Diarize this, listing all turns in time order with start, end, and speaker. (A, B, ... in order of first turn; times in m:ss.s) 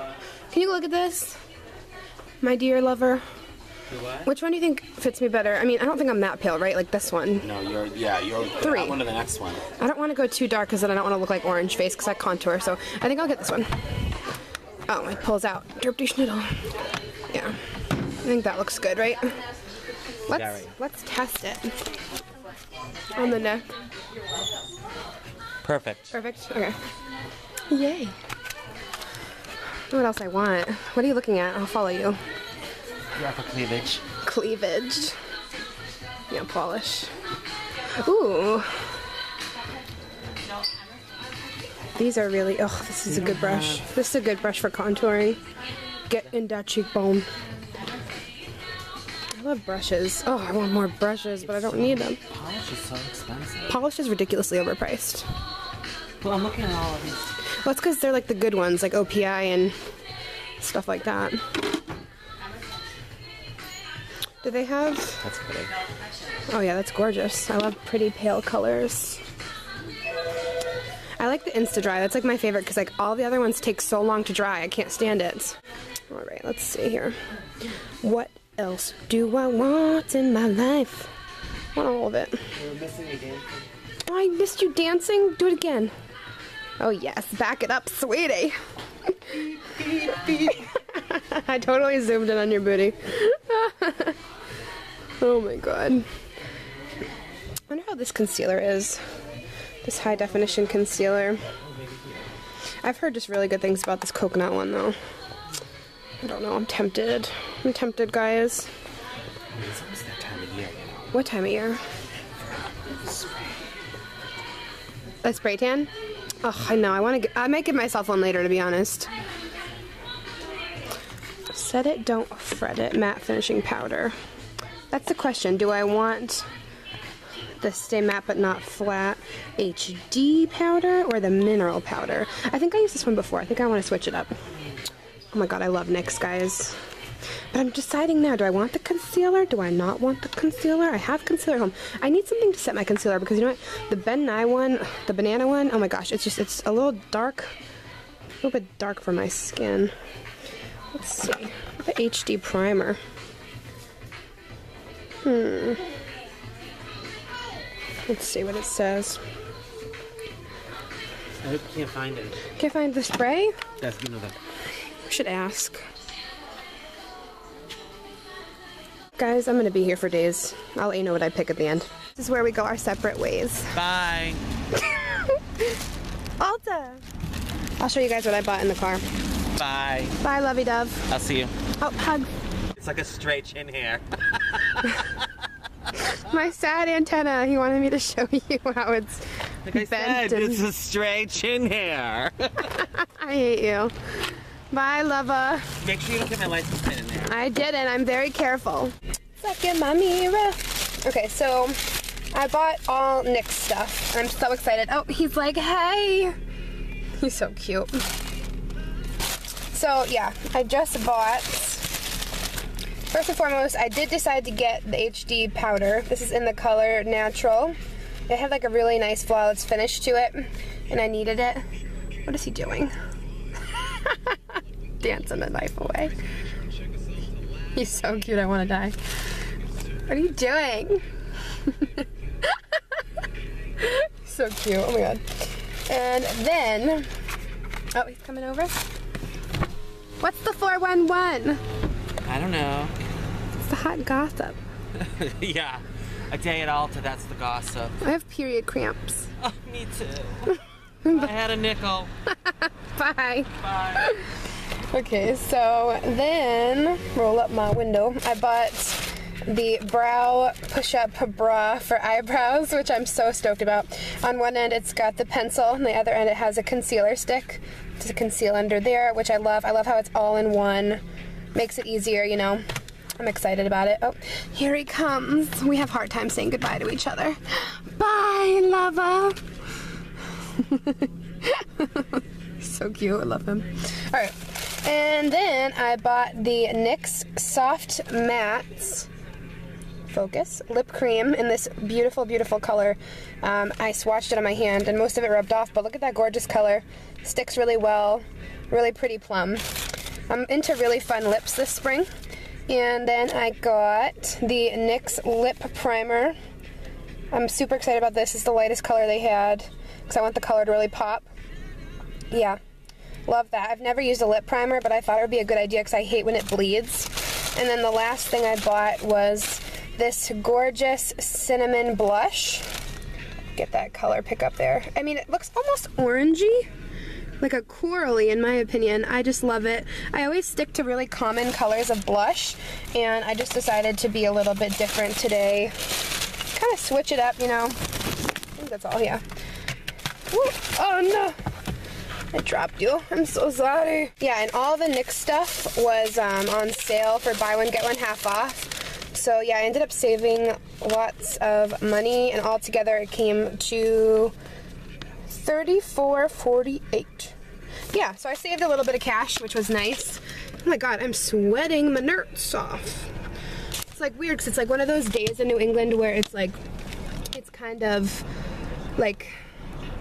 0:00.5-0:01.4 A
0:02.4-0:03.2 A
0:03.9-0:04.3 B
0:04.2-0:07.5 A
0:07.4-0:09.7 B
0:08.6-0:09.0 A
0:09.8-0:13.8 A
0:14.9-0:16.7 A
0:17.3-0:17.6 A
0:18.2-0:19.4 A
0:20.3-0:21.8 A
0:20.3-0:20.7 B
0:23.2-0:23.7 A
0:25.6-0:26.1 B
0:26.1-0:26.8 A
0:27.7-0:28.2 A
0:29.9-0:32.2 A
0:33.2-0:34.0 B
0:34.2-0:35.2 A
0:36.3-0:37.1 A
0:38.0-0:38.9 A
0:42.0-0:45.4 A
0:43.1-0:43.9 B
0:46.1-0:47.3 A
0:49.4-0:52.2 A
0:51.5-0:53.8 B
0:53.7-0:55.3 A
0:56.2-0:57.4 B
0:57.6-0:59.8 A
1:00.6-1:01.4 A
1:04.4-1:05.2 A
1:05.2-1:05.7 B
1:06.5-1:09.2 A
1:11.2-1:15.6 A
1:16.1-1:17.2 A
1:18.0-1:21.1 A
1:21.8-1:22.5 A
1:22.6-1:23.6 B
1:24.1-1:25.9 A
1:26.8-1:34.2 A
1:35.2-1:36.1 A
1:37.7-1:39.0 A
1:39.8-1:41.4 A
1:41.8-1:42.1 B
1:42.8-1:45.0 A
1:46.2-1:48.7 A
1:49.5-1:51.1 B
1:51.1-1:51.8 A
1:52.4-1:53.5 B
1:55.2-1:55.9 A
1:56.4-1:59.1 A
2:01.5-2:04.2 A
2:04.9-2:06.5 A
2:07.6-2:14.4 A
2:15.3-2:16.8 A
2:17.5-2:27.5 A
2:28.4-2:29.9 A
2:30.9-2:33.0 A
2:35.2-2:35.8 A
2:38.1-2:39.2 A
2:41.4-2:42.5 B
2:42.6-2:43.6 A
2:43.8-2:44.4 B
2:45.0-2:45.9 A
2:49.2-2:53.8 A
2:53.7-2:54.4 B
2:54.8-2:55.6 A
2:56.4-2:57.0 A
2:57.8-2:59.0 A
2:59.6-3:00.2 B
3:00.2-3:01.1 A
3:01.1-3:01.6 B
3:01.8-3:02.3 A
3:02.8-3:05.3 B
3:06.0-3:10.6 A
3:09.6-3:12.8 B
3:12.7-3:15.8 A
3:15.8-3:17.4 B
3:17.3-3:26.4 A
3:27.2-3:28.0 A
3:29.7-3:31.9 A
3:33.1-3:37.8 A
3:38.3-3:41.6 A
3:42.3-3:42.9 A
3:43.8-3:44.4 A
3:45.0-3:46.2 A
3:47.8-3:49.0 A
3:50.1-3:51.0 A
3:51.6-3:53.0 A
3:53.8-3:57.1 A
3:57.9-3:58.8 A
4:00.2-4:01.6 A
4:02.2-4:03.0 B
4:03.6-4:04.6 A
4:05.0-4:08.0 B
4:08.0-4:09.3 A
4:09.4-4:12.1 B
4:11.0-4:11.3 A
4:12.3-4:31.0 A
4:13.6-4:14.1 B
4:31.6-4:32.6 A
4:33.2-4:39.4 A
4:40.4-4:49.1 A
4:50.1-5:02.1 A
5:02.7-5:06.4 A
5:07.3-5:11.3 A
5:12.3-5:12.6 A
5:13.3-5:22.7 A
5:23.6-5:26.7 A
5:27.4-5:36.0 A
5:36.5-5:37.9 A
5:38.6-5:39.2 A
5:40.3-5:41.4 A
5:42.3-5:54.3 A
5:55.3-5:57.4 A
5:57.9-6:03.1 A
6:03.9-6:06.6 A
6:07.3-6:08.2 A
6:09.0-6:09.4 A